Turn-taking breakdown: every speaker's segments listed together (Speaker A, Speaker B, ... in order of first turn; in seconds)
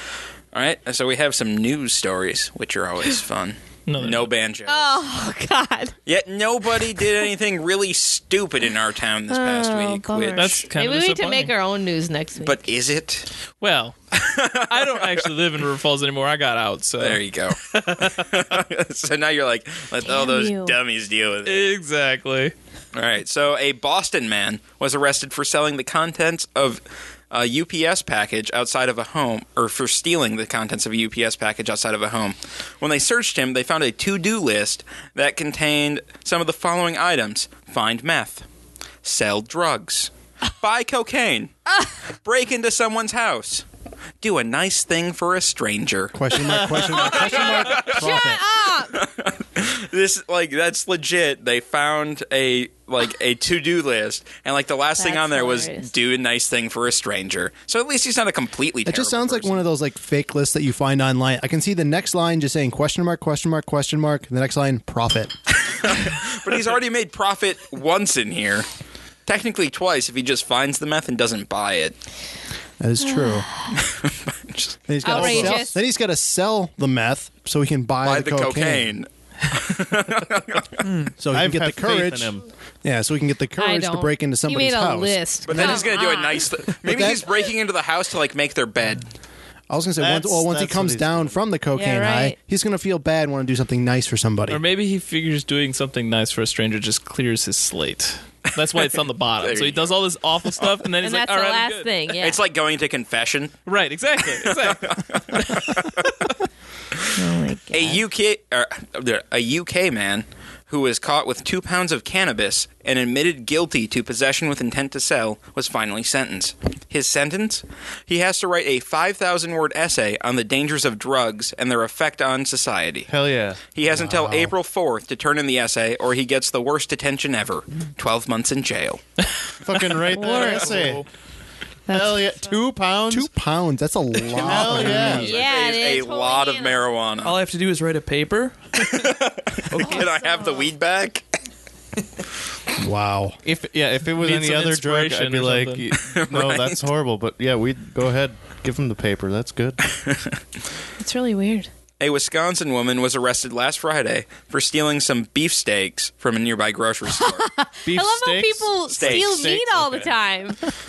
Speaker A: 0.5-5.0, 6.0-10.7, 12.4-13.3, 14.1-15.2, 17.0-21.7, 22.9-38.4, 39.0-41.5, 42.2-43.6, 44.2-46.2, 46.7-48.0, 48.9-59.7, 65.6-68.7, 69.2-72.0, 73.7-74.8, 78.0-80.8, 85.4-89.0, 99.4-100.0, 102.2-103.6, 104.3-106.1, 107.7-123.1, 123.7-129.0, 135.2-137.4, 138.8-141.2, 146.1-146.9, 149.9-150.3, 152.0-157.5, 158.9-159.5
Speaker B: 3.9-4.3, 10.3-11.5, 13.6-13.9, 14.7-18.4, 21.4-22.5, 94.5-101.9, 103.7-105.9, 130.2-130.8, 134.7-135.3, 144.2-145.9
Speaker C: 4.7-5.9, 9.3-12.6, 20.0-20.8, 46.9-49.0, 55.0-55.9, 73.0-73.7, 75.0-75.8, 83.6-86.5, 91.7-92.3, 101.0-102.4, 107.2-108.0, 130.1-130.7, 131.9-132.4, 135.1-136.8, 139.8-140.7, 151.0-151.7, 157.1-160.6
Speaker D: 46.1-48.4, 58.9-65.4, 72.8-73.5, 74.9-78.9, 81.2-85.9, 86.8-87.3, 89.7-94.6, 123.9-124.5, 133.1-135.3, 142.8-143.4
Speaker E: 75.1-75.7, 81.3-82.4, 90.0-91.4, 123.1-123.6, 129.6-131.0, 131.9-133.3, 134.3-135.3, 143.4-149.8, 157.8-160.2
Speaker F: 80.8-81.2, 130.5-131.0, 137.2-139.1, 139.7-140.2